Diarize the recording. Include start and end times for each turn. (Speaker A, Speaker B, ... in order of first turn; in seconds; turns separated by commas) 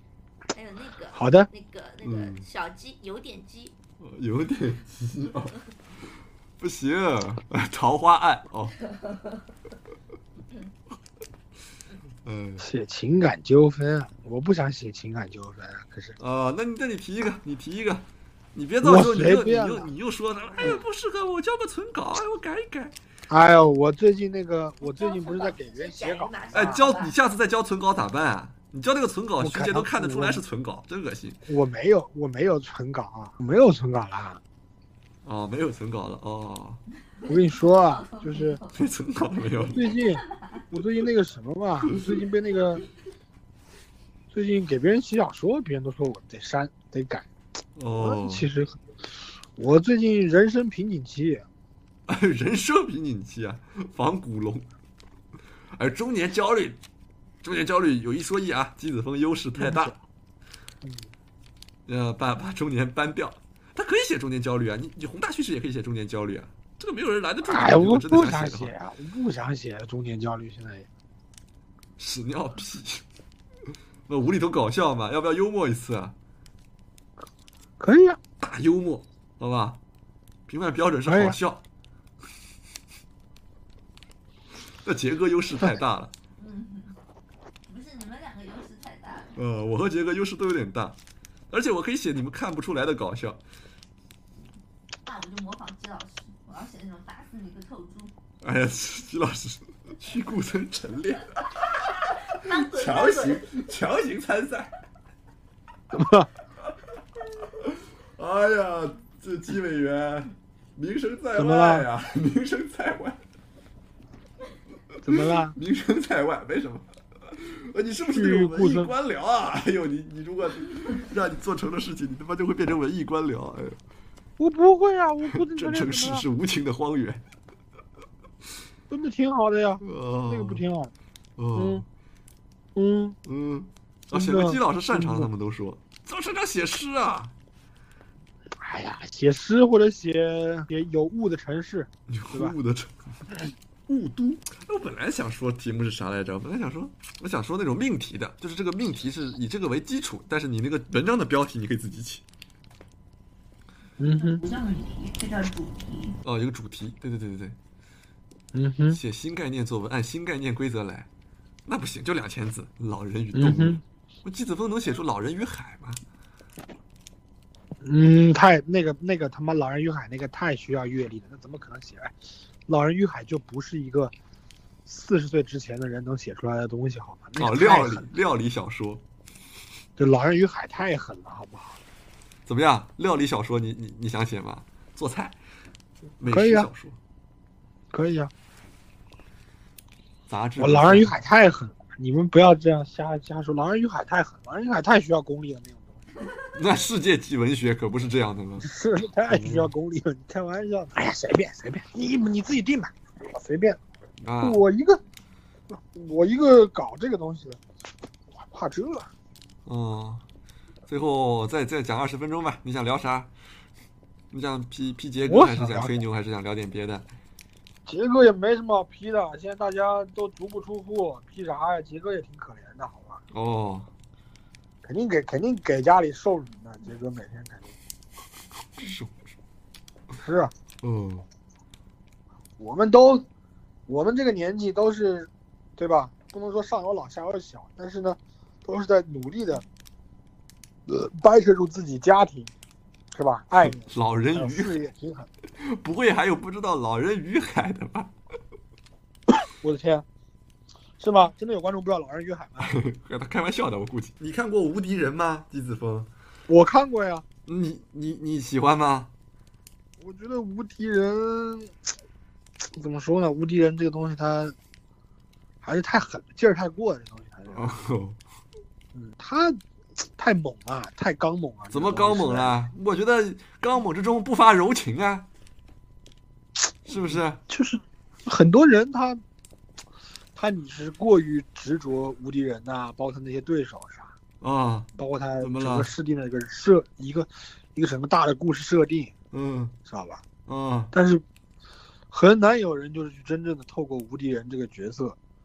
Speaker A: 0.5-3.8, Speaker B: 1.1-1.5, Speaker C: 2.0-2.5, Speaker C: 4.0-5.6, Speaker C: 6.6-8.8, Speaker A: 8.9-9.3, Speaker C: 12.2-12.7, Speaker B: 12.6-16.2, Speaker C: 16.2-22.9, Speaker B: 18.8-19.9, Speaker B: 23.3-26.8, Speaker A: 24.8-27.2, Speaker C: 26.5-31.4, Speaker B: 29.4-30.4, Speaker B: 31.5-34.4, Speaker C: 35.2-36.8, Speaker A: 37.2-40.6, Speaker B: 37.3-38.6, Speaker C: 38.7-39.8, Speaker B: 39.7-42.8, Speaker B: 44.3-47.3, Speaker C: 47.8-48.5, Speaker B: 48.0-48.8, Speaker B: 49.6-51.5, Speaker C: 52.1-54.7, Speaker C: 55.8-56.8, Speaker C: 57.4-60.0, Speaker B: 59.5-60.0, Speaker B: 60.8-61.1, Speaker C: 61.9-68.7, Speaker B: 67.5-70.9, Speaker C: 72.0-73.0, Speaker C: 74.1-76.2, Speaker B: 77.8-78.2, Speaker C: 78.4-79.8, Speaker C: 80.5-81.6, Speaker B: 81.1-81.4, Speaker C: 84.8-86.1, Speaker A: 86.4-87.0, Speaker A: 87.7-89.4, Speaker C: 89.4-91.0, Speaker C: 91.5-93.4, Speaker A: 95.0-98.1, Speaker C: 98.4-104.7, Speaker A: 102.3-103.5, Speaker B: 105.9-106.3, Speaker C: 107.6-113.2, Speaker B: 111.3-111.9, Speaker B: 115.0-115.6, Speaker C: 115.1-123.8, Speaker B: 118.1-118.9, Speaker B: 124.4-126.2, Speaker C: 125.4-127.2, Speaker B: 128.9-130.9, Speaker C: 129.8-130.6, Speaker C: 131.4-131.9, Speaker B: 131.6-131.8, Speaker B: 132.8-133.2, Speaker C: 133.3-137.3, Speaker B: 134.1-135.3, Speaker B: 138.6-142.6, Speaker C: 142.1-143.2, Speaker C: 143.9-152.2, Speaker B: 154.0-154.4, Speaker A: 154.1-156.2, Speaker C: 156.2-157.6, Speaker B: 158.5-159.0, Speaker C: 158.9-161.1, Speaker C: 161.7-166.0, Speaker B: 163.3-163.8, Speaker B: 167.8-174.1, Speaker B: 174.9-178.1, Speaker C: 177.4-179.0, Speaker B: 180.0-181.8, Speaker C: 182.5-185.3, Speaker C: 186.2-187.0, Speaker B: 186.2-186.7, Speaker B: 187.9-188.3, Speaker C: 190.3-191.1, Speaker B: 190.6-196.0, Speaker C: 196.5-198.7, Speaker B: 198.6-203.8, Speaker C: 199.3-199.7, Speaker C: 204.2-204.6, Speaker B: 204.4-205.0, Speaker B: 205.7-207.6, Speaker B: 208.4-209.1, Speaker C: 209.7-210.2, Speaker C: 210.9-213.3, Speaker C: 214.3-217.1, Speaker B: 215.2-216.0, Speaker B: 217.9-223.2, Speaker C: 223.3-223.9, Speaker B: 224.8-227.8, Speaker C: 228.8-229.2, Speaker B: 230.2-230.5, Speaker C: 230.8-231.2, Speaker B: 232.6-233.3, Speaker B: 233.9-239.7, Speaker B: 240.9-242.5, Speaker B: 243.1-245.3, Speaker C: 243.7-244.8, Speaker C: 245.6-248.1, Speaker B: 249.6-250.1, Speaker B: 251.0-252.7, Speaker C: 252.6-256.1, Speaker B: 256.5-257.2, Speaker C: 257.5-259.1, Speaker B: 260.0-261.7, Speaker B: 262.8-264.6, Speaker B: 265.6-267.8, Speaker C: 267.5-268.2, Speaker B: 268.9-269.6, Speaker B: 270.2-272.6, Speaker C: 271.7-275.3, Speaker C: 276.9-277.4, Speaker B: 277.1-279.2, Speaker B: 280.4-284.1, Speaker C: 284.4-285.9, Speaker B: 285.0-289.1, Speaker C: 289.3-289.8, Speaker B: 289.9-290.2, Speaker C: 290.5-290.9, Speaker B: 290.9-291.2, Speaker B: 292.1-295.2